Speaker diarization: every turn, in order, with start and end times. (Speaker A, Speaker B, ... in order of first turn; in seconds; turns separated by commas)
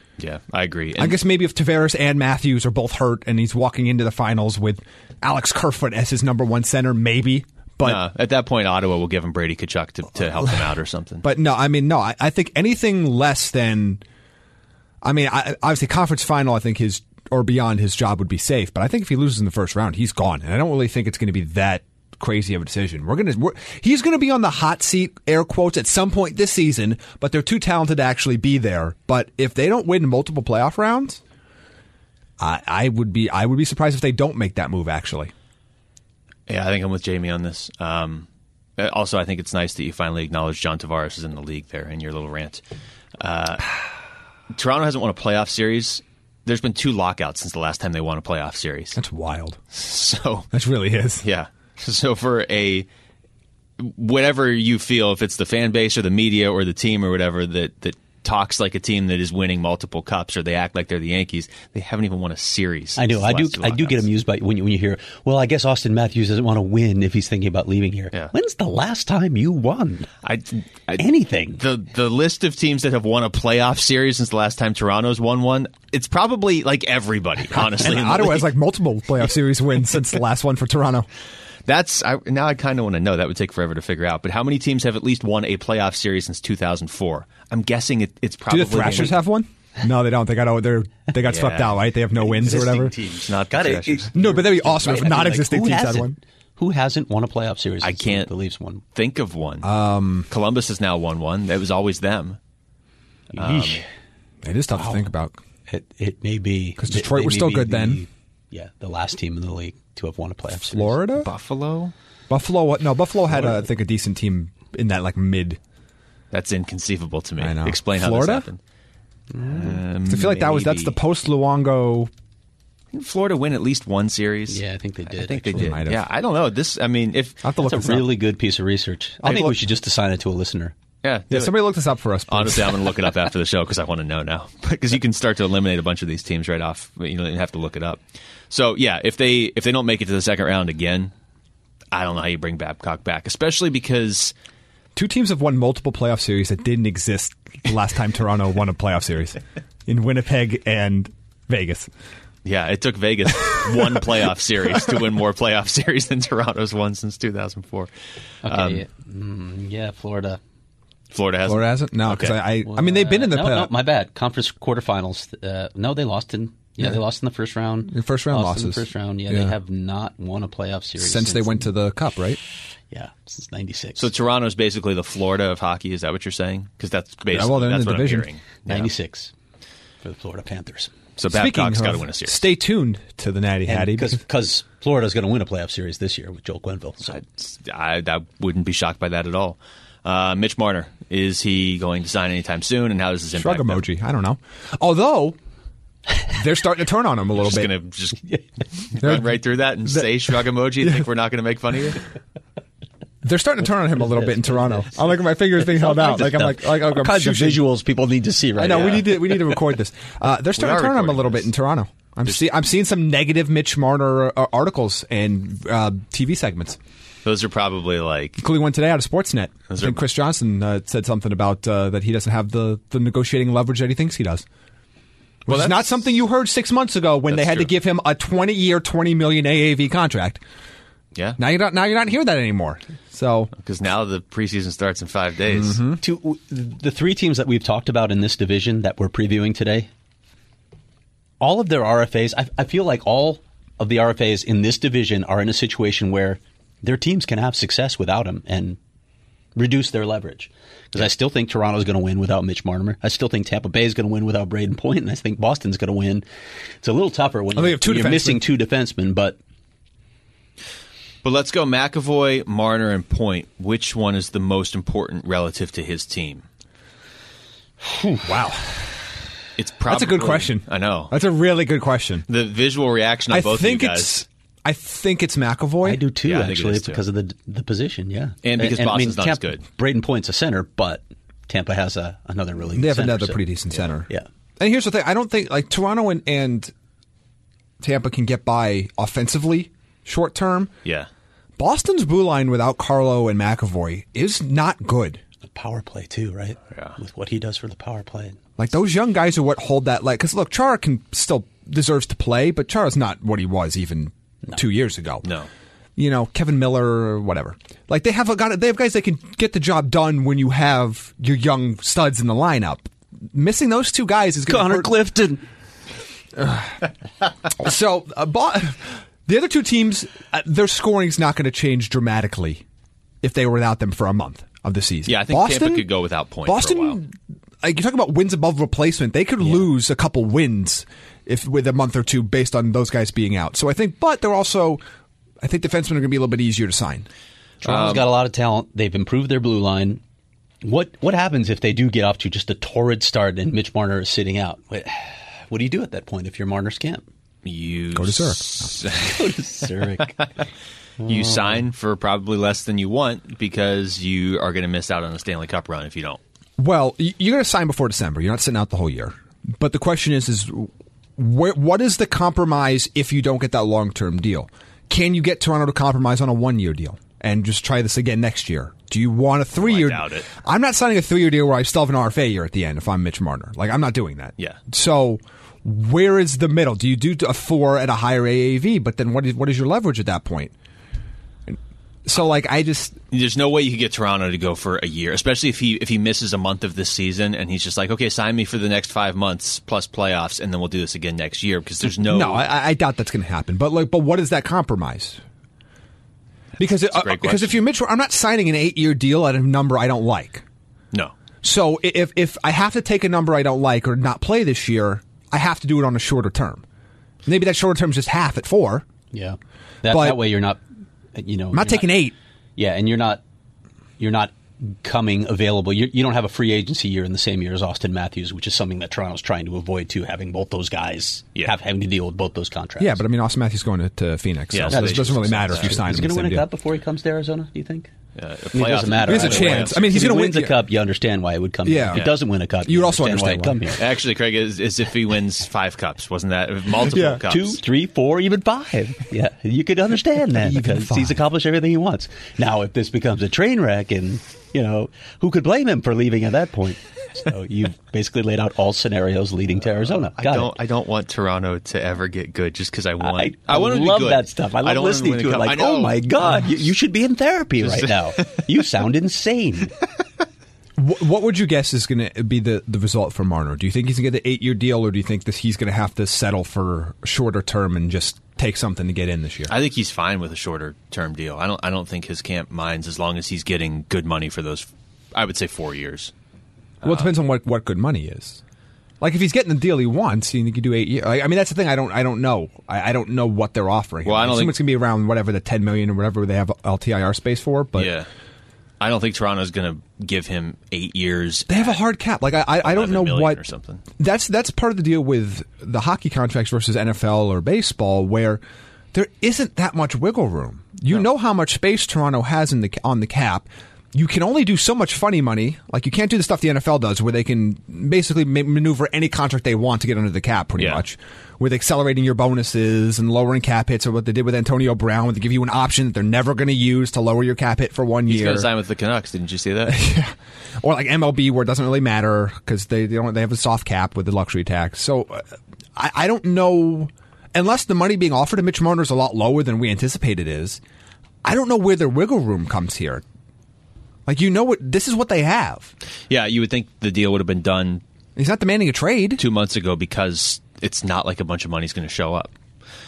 Speaker A: 0.2-1.2, Speaker B: 1.0-8.0, Speaker A: 7.8-11.2, Speaker B: 11.2-14.0, Speaker B: 15.0-31.2, Speaker B: 32.4-35.3, Speaker A: 36.5-38.3, Speaker A: 38.8-42.6, Speaker A: 43.2-43.8, Speaker A: 44.5-49.0, Speaker B: 49.0-49.6, Speaker A: 49.7-50.5, Speaker B: 50.5-51.2, Speaker A: 51.2-52.9, Speaker A: 53.8-64.0, Speaker C: 63.0-70.1, Speaker A: 70.2-78.5, Speaker C: 71.0-71.6, Speaker B: 77.5-81.1, Speaker A: 81.7-89.2, Speaker B: 88.5-92.9, Speaker A: 91.2-91.8, Speaker C: 92.2-98.8, Speaker A: 93.1-94.1, Speaker B: 94.1-96.2, Speaker A: 97.8-98.3, Speaker A: 99.0-99.7, Speaker B: 99.6-100.3, Speaker A: 100.3-102.4, Speaker C: 103.3-103.9, Speaker A: 103.3-103.8, Speaker B: 104.4-105.4, Speaker C: 104.8-105.0, Speaker C: 105.7-111.0, Speaker B: 106.8-108.0, Speaker B: 110.7-111.3, Speaker A: 111.2-111.9, Speaker B: 112.3-115.6, Speaker A: 116.3-118.6, Speaker B: 117.4-118.5, Speaker C: 119.3-119.8, Speaker A: 119.5-121.0, Speaker B: 120.1-122.1, Speaker A: 122.9-127.4, Speaker C: 124.5-125.8, Speaker B: 125.5-126.1, Speaker B: 127.4-128.1, Speaker C: 127.6-130.7, Speaker B: 129.2-129.6, Speaker A: 131.0-131.7, Speaker B: 131.3-132.9, Speaker A: 132.3-141.1, Speaker A: 141.9-144.3, Speaker B: 144.9-151.9, Speaker A: 152.4-157.9, Speaker A: 158.4-158.8, Speaker C: 158.4-160.4, Speaker A: 161.1-162.4, Speaker B: 161.4-163.7, Speaker C: 162.7-171.7, Speaker B: 167.9-169.6, Speaker B: 171.0-172.4, Speaker C: 172.9-174.1, Speaker A: 174.0-178.9, Speaker B: 177.3-178.3, Speaker C: 178.7-179.3, Speaker C: 180.0-180.9, Speaker A: 181.2-182.4, Speaker B: 181.3-184.2, Speaker C: 183.7-187.2, Speaker A: 187.1-193.8, Speaker B: 193.3-195.4, Speaker B: 196.3-197.7, Speaker A: 197.4-198.3, Speaker A: 198.9-202.0, Speaker B: 199.0-200.1, Speaker B: 203.2-207.6, Speaker C: 204.0-205.0, Speaker C: 205.6-209.3, Speaker B: 208.6-216.8, Speaker A: 210.6-211.5, Speaker A: 217.2-218.4, Speaker B: 218.4-224.4, Speaker A: 219.7-220.0, Speaker B: 225.5-230.4, Speaker A: 225.5-225.9, Speaker A: 227.3-227.7, Speaker B: 231.4-233.5, Speaker A: 233.6-235.8, Speaker B: 235.5-236.0, Speaker C: 236.0-239.9, Speaker C: 241.4-248.8, Speaker C: 249.6-256.2, Speaker C: 256.8-259.4, Speaker B: 257.6-258.4, Speaker A: 261.2-266.4, Speaker C: 267.8-268.3, Speaker B: 268.2-268.9, Speaker A: 269.6-271.1, Speaker B: 269.9-272.3, Speaker A: 272.3-274.2, Speaker B: 273.3-276.0, Speaker C: 275.8-283.4, Speaker A: 276.2-277.0, Speaker A: 278.4-279.6, Speaker B: 282.7-286.7, Speaker B: 287.8-290.7, Speaker B: 291.6-295.2, Speaker C: 295.4-298.4, Speaker B: 298.6-305.3, Speaker A: 305.2-305.5, Speaker B: 306.0-314.9, Speaker C: 314.5-315.4, Speaker B: 316.4-316.8, Speaker B: 317.5-322.6, Speaker B: 323.2-325.9, Speaker A: 325.1-327.0, Speaker B: 326.5-334.8, Speaker B: 335.4-337.1, Speaker A: 337.6-338.1, Speaker C: 337.6-340.0, Speaker C: 340.6-347.0, Speaker A: 347.4-349.3, Speaker B: 347.9-348.7, Speaker C: 349.0-350.2, Speaker C: 351.0-351.4, Speaker A: 351.0-356.2, Speaker B: 356.6-380.5, Speaker A: 369.6-370.3, Speaker B: 381.5-383.0, Speaker A: 383.1-392.4, Speaker B: 391.9-395.2, Speaker B: 396.6-400.4, Speaker A: 396.6-397.6, Speaker B: 401.4-406.6, Speaker B: 407.2-408.9, Speaker C: 409.1-410.6, Speaker B: 409.9-410.2, Speaker C: 411.1-411.9, Speaker B: 411.5-412.1, Speaker C: 412.6-413.2, Speaker C: 414.0-423.0, Speaker B: 422.8-426.5, Speaker A: 424.5-425.8, Speaker C: 424.7-427.9, Speaker A: 428.1-429.9, Speaker C: 428.5-433.8, Speaker B: 429.0-430.6, Speaker B: 431.6-432.1, Speaker B: 432.6-433.8, Speaker A: 433.8-437.6, Speaker B: 436.9-437.2, Speaker C: 437.3-450.5, Speaker B: 440.4-441.2, Speaker A: 450.0-456.5, Speaker C: 453.0-459.7, Speaker A: 457.6-458.4, Speaker B: 460.8-469.5, Speaker A: 469.5-476.1, Speaker A: 476.8-477.1, Speaker B: 476.8-478.4, Speaker B: 479.0-487.9, Speaker A: 484.1-484.6, Speaker A: 487.8-488.1, Speaker A: 488.8-491.8, Speaker B: 491.5-493.4, Speaker A: 492.6-493.8, Speaker B: 494.0-498.4, Speaker B: 498.9-518.5, Speaker A: 510.6-510.8, Speaker A: 518.1-519.9, Speaker B: 519.7-530.6, Speaker B: 531.2-533.0, Speaker B: 534.1-535.7, Speaker A: 536.1-537.8, Speaker B: 538.1-539.2, Speaker A: 539.2-542.3